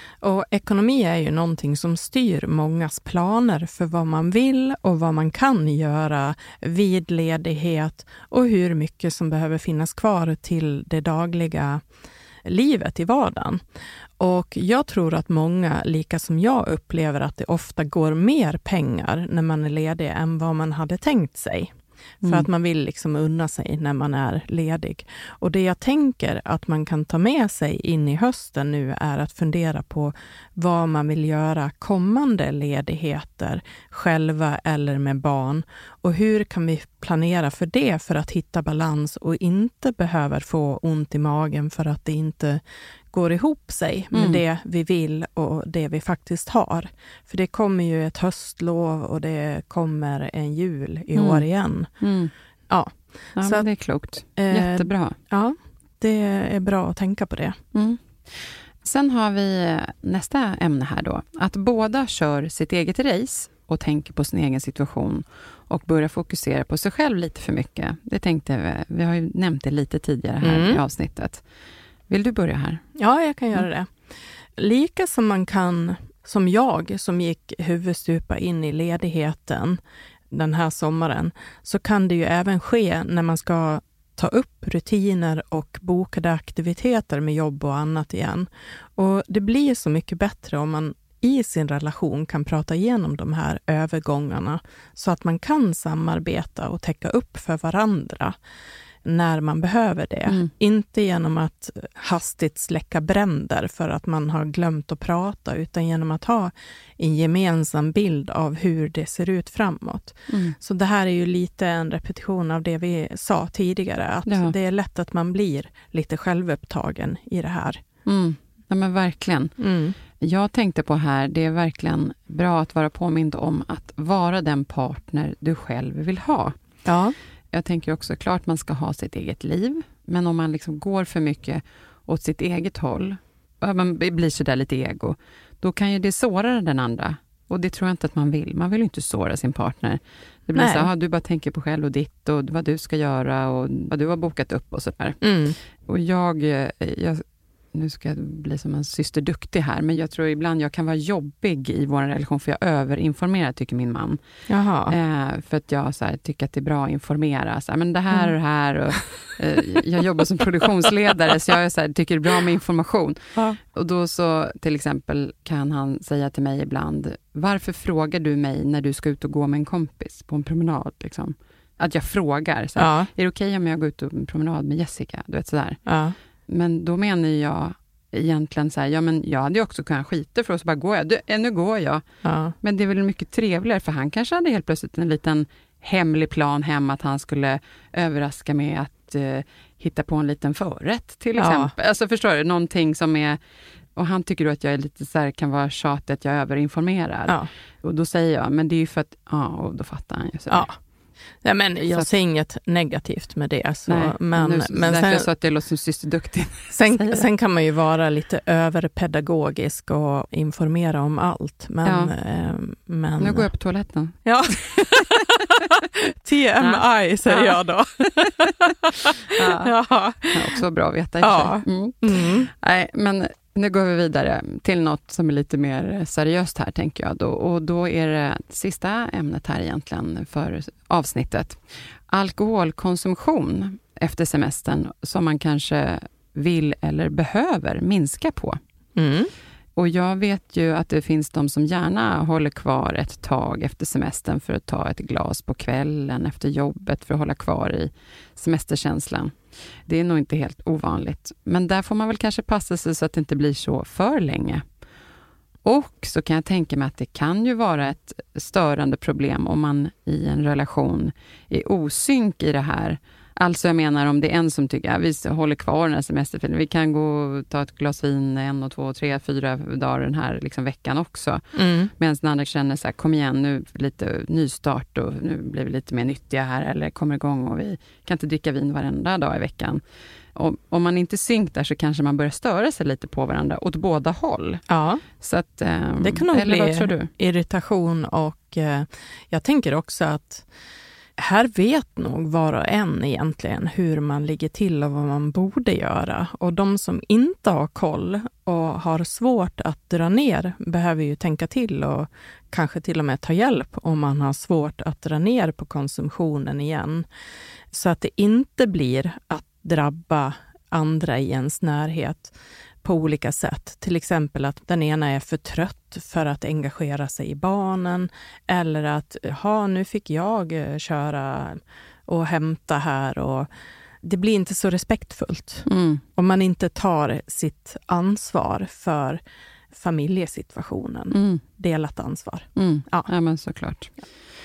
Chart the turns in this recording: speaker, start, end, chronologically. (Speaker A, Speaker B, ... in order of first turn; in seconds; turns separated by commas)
Speaker A: 0.2-11.8, Speaker A: 12.4-13.6, Speaker A: 14.2-51.9, Speaker B: 44.1-44.4, Speaker B: 51.1-51.4, Speaker B: 52.0-52.3, Speaker A: 52.7-53.7, Speaker B: 53.4-55.2, Speaker A: 54.2-57.6, Speaker B: 57.7-71.4, Speaker A: 70.4-70.8, Speaker B: 72.1-72.8, Speaker A: 73.0-73.9, Speaker A: 74.5-98.4, Speaker A: 99.0-117.8, Speaker B: 110.3-110.5, Speaker B: 114.2-114.5, Speaker B: 118.0-119.5, Speaker A: 119.6-120.0, Speaker B: 120.2-126.5, Speaker A: 126.8-127.1, Speaker B: 127.5-145.2, Speaker A: 140.5-140.9, Speaker A: 145.2-145.6, Speaker B: 145.8-154.2, Speaker A: 154.5-154.9, Speaker B: 154.9-175.8, Speaker A: 172.8-173.1, Speaker A: 175.8-176.1, Speaker B: 176.5-182.0, Speaker A: 182.2-182.5, Speaker B: 182.6-193.4, Speaker A: 191.4-191.7, Speaker B: 193.9-200.7, Speaker A: 200.5-200.8, Speaker A: 201.4-205.3, Speaker B: 203.9-207.2, Speaker A: 206.7-213.5, Speaker B: 211.8-212.1, Speaker B: 213.2-215.4, Speaker A: 214.2-220.6, Speaker B: 216.6-218.7, Speaker B: 219.2-219.7, Speaker B: 220.3-238.6, Speaker A: 221.2-222.5, Speaker A: 238.9-239.3, Speaker B: 239.8-254.6, Speaker B: 255.6-279.8, Speaker A: 271.5-271.9, Speaker B: 280.3-284.6, Speaker A: 284.7-285.0, Speaker B: 285.2-287.1, Speaker A: 286.0-290.5, Speaker A: 291.2-307.1, Speaker A: 307.7-323.5, Speaker A: 324.0-329.2, Speaker B: 325.6-326.0, Speaker A: 329.7-333.1, Speaker B: 331.1-331.4, Speaker B: 332.6-333.9